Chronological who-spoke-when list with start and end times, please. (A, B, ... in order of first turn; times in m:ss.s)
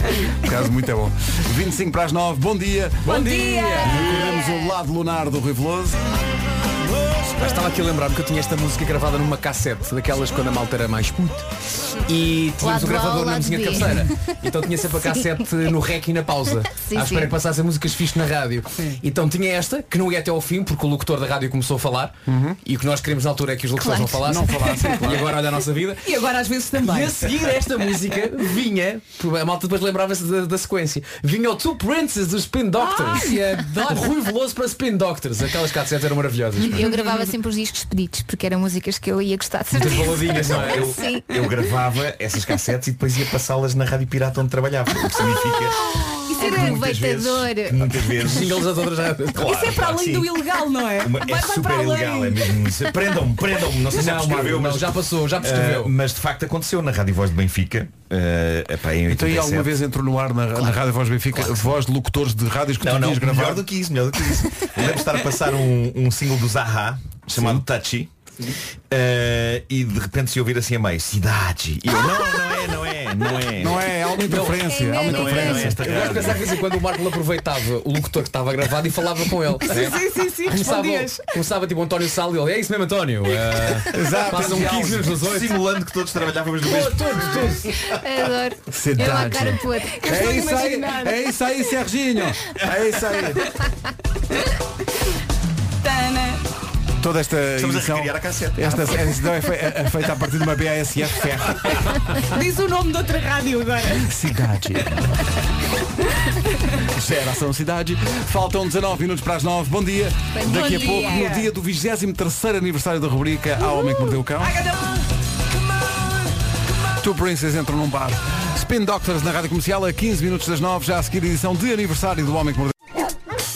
0:00.4-0:03.2 A
0:03.0-0:04.0 B
0:03.1-0:04.4 C
0:03.8-0:06.1 A
0:07.4-0:26.1 B
0:12.6-0:14.2 D
0:15.1-0:15.4 D
0:16.8-0:17.3 D
0:22.3-0:22.6 A
0:23.8-0:24.3 D
0:24.2-0:25.4 A
0:26.0-0:27.3 C
0:26.8-0:36.9 B
0:32.8-0:34.1 C
0:36.7-0:41.4 D
0:39.7-0:40.9 B
0:40.3-0:48.6 E
0:46.2-0:46.9 C
0:46.4-0:48.1 D
0:48.2-0:49.6 B
0:49.3-0:50.4 E
0:49.4-0:52.7 C
0:51.0-0:59.8 E
0:53.9-0:55.9 B
0:59.1-1:03.7 A
1:02.8-1:08.1 E
1:07.4-1:07.6 A
1:08.9-1:13.9 E
1:13.6-1:15.9 A
1:14.2-1:25.6 B
1:14.6-1:15.7 D
1:15.1-1:16.5 E
1:19.6-1:21.3 C
1:23.9-1:25.2 A
1:25.1-1:28.0 E
1:26.6-1:27.7 B
1:27.9-1:30.0 D
1:28.7-1:33.5 A
1:29.9-1:31.2 C
1:35.8-1:36.4 C
1:37.0-1:41.9 A
1:37.6-1:39.1 E
1:42.3-1:44.1 C
1:44.0-1:45.1 A
1:46.9-1:54.6 A
1:50.4-1:51.2 D
1:50.4-1:51.5 C
1:54.4-1:55.0 C
1:57.0-2:02.8 A